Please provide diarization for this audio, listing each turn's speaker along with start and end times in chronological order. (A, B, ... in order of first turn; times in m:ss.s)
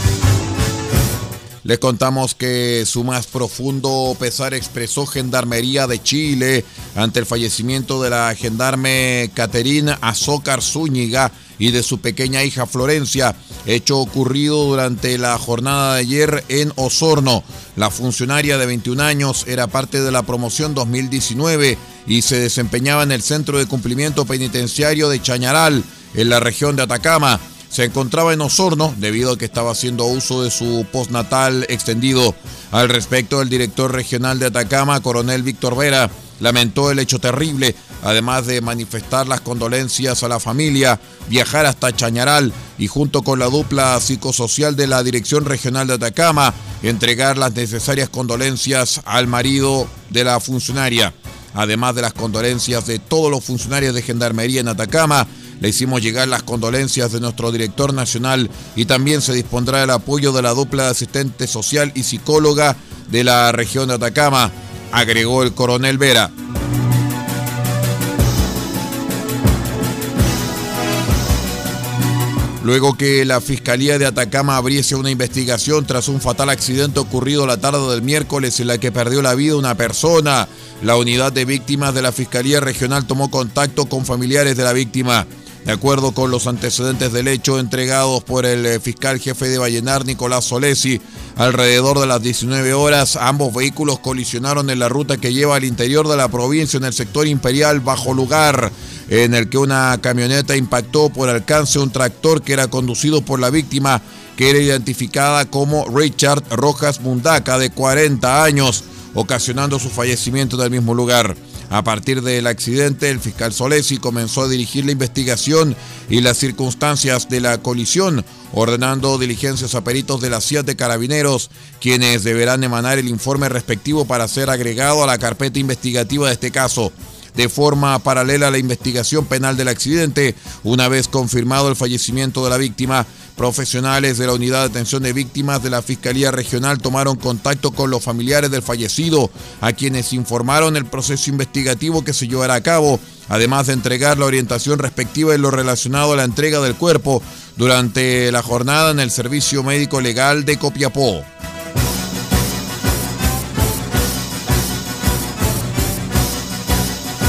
0:01.6-1:06.3 A
1:12.6-2:31.3 A